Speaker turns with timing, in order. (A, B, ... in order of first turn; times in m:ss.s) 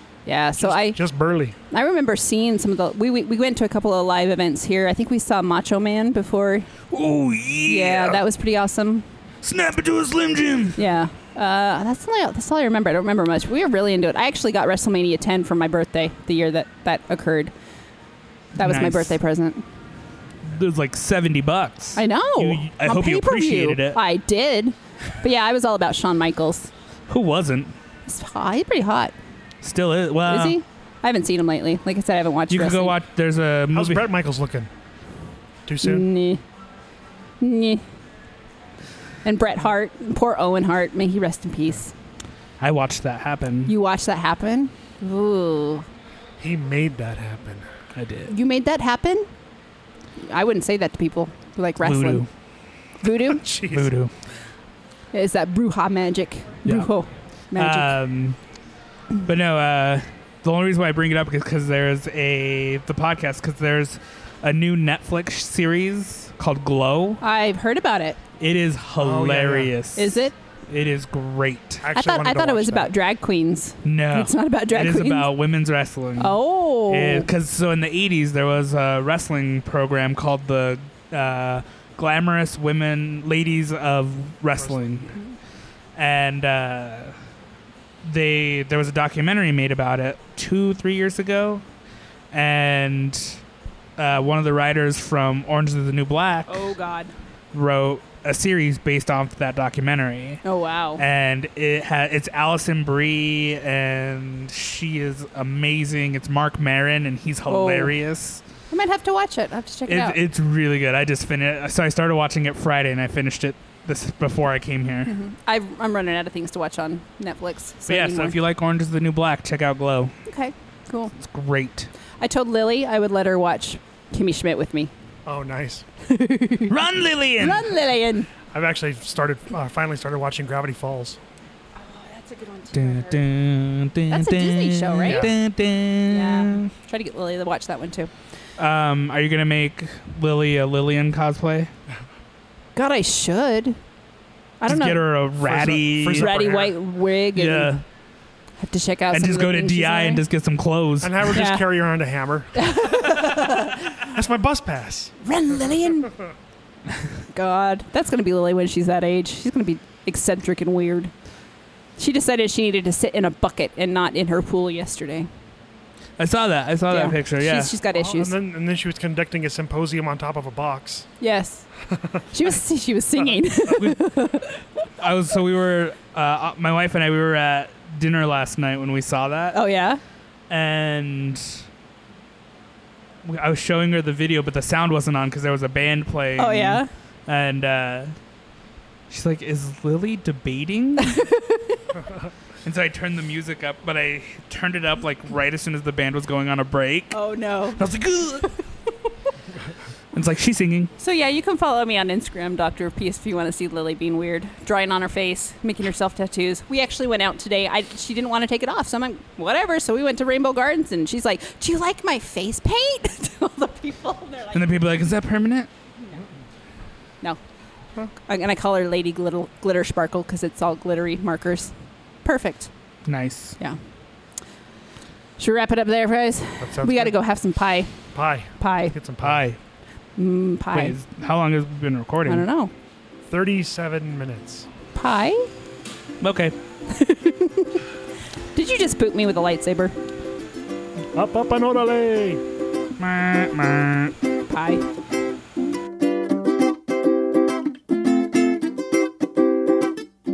0:00.3-0:01.0 A
0:00.6-0:01.6 B
0:01.7-0:06.7 A
0:06.9-0:08.2 C
0:07.6-0:09.1 A
0:09.4-0:10.8 C
0:10.8-0:17.5 A
0:18.6-0:19.1 C
0:18.6-0:19.6 A
0:20.4-0:24.0 C
0:22.0-0:26.7 A
0:27.1-0:27.8 C
0:28.1-0:29.1 A
0:29.6-0:30.6 C
0:30.3-0:33.0 A
0:32.5-0:34.1 C
0:33.7-0:34.7 B
0:35.7-0:36.1 B
0:35.8-0:36.4 A
0:37.4-0:37.8 A
0:39.2-0:41.9 A
0:42.6-0:43.7 C
0:43.7-0:45.9 A
0:46.4-0:47.7 B
0:47.9-0:48.3 C
0:48.3-0:49.3 A
0:50.2-0:52.2 A
0:51.8-0:52.3 C
0:53.0-0:53.4 A
0:53.3-0:53.9 B
0:53.7-0:54.1 C
0:55.1-0:58.0 A
0:56.7-0:56.9 C
0:57.5-0:58.4 C
0:59.2-1:07.2 C
1:07.2-1:08.2 A
1:08.4-1:11.9 C
1:09.0-1:09.7 B
1:10.0-1:10.4 A
1:11.8-1:12.9 B
1:11.9-1:15.3 A
1:13.8-1:25.2 C
1:16.2-1:17.3 A
1:24.6-1:25.2 B
1:26.0-1:27.2 C
1:28.0-1:31.6 C
1:32.3-1:33.4 C
1:34.0-1:36.7 C
1:36.5-1:37.1 A
1:37.5-1:40.4 C
1:40.4-1:41.0 A
1:41.0-1:48.4 C
1:47.5-1:47.9 A
1:48.7-1:50.2 A
1:49.9-1:55.1 C
1:55.1-1:58.4 A
1:57.9-2:00.1 C
2:00.3-2:01.1 A
2:01.2-2:01.9 C
2:02.2-2:04.9 A
2:05.2-2:05.9 B
2:06.0-2:06.7 A
2:06.7-2:07.7 C
2:07.4-2:08.3 A
2:08.5-2:11.2 B
2:11.8-2:13.2 A
2:12.7-2:16.7 C
2:14.1-2:15.3 A
2:15.0-2:15.3 B
2:16.1-2:18.1 A
2:18.6-2:21.7 C
2:22.8-2:23.8 A
2:24.6-2:25.0 A
2:24.6-2:26.4 C
2:25.4-2:26.7 B
2:26.1-2:27.8 A
2:27.3-2:27.8 C
2:28.6-2:30.2 A
2:29.1-2:31.4 C
2:31.0-2:33.2 B
2:31.3-2:31.6 A
2:32.6-2:34.0 A
2:33.9-2:35.1 B
2:35.2-2:36.2 A
2:37.3-2:41.1 A
2:42.0-2:45.3 A
2:46.2-2:47.7 C
2:46.9-2:48.4 A
2:47.9-2:51.1 B
2:51.2-2:51.7 A
2:52.3-2:54.6 A
2:53.8-2:54.4 C
2:55.0-2:59.6 C
2:59.5-3:00.0 A
3:00.5-3:01.6 C
3:03.2-3:08.2 C
3:06.4-3:06.9 A
3:09.1-3:11.2 C
3:11.0-3:11.8 A
3:12.6-3:17.2 C
3:17.1-3:17.8 A
3:17.8-3:18.5 C
3:20.1-3:20.9 C
3:21.0-3:34.9 A
3:34.5-3:35.7 C
3:38.2-3:41.7 A
3:42.2-3:42.7 A
3:43.1-3:43.6 C
3:45.4-3:48.1 A
3:46.6-3:47.1 B
3:48.1-3:49.4 B
3:48.6-3:49.0 A
3:49.2-3:49.6 C
3:50.2-3:51.0 A
3:50.7-3:52.4 C
3:52.3-3:52.7 A
3:53.3-3:54.7 B
3:55.0-3:55.5 A
3:56.2-3:56.6 C
3:56.9-3:57.8 A
3:58.5-4:00.0 A
4:01.1-4:02.4 B
4:03.0-4:04.1 C
4:04.5-4:04.8 A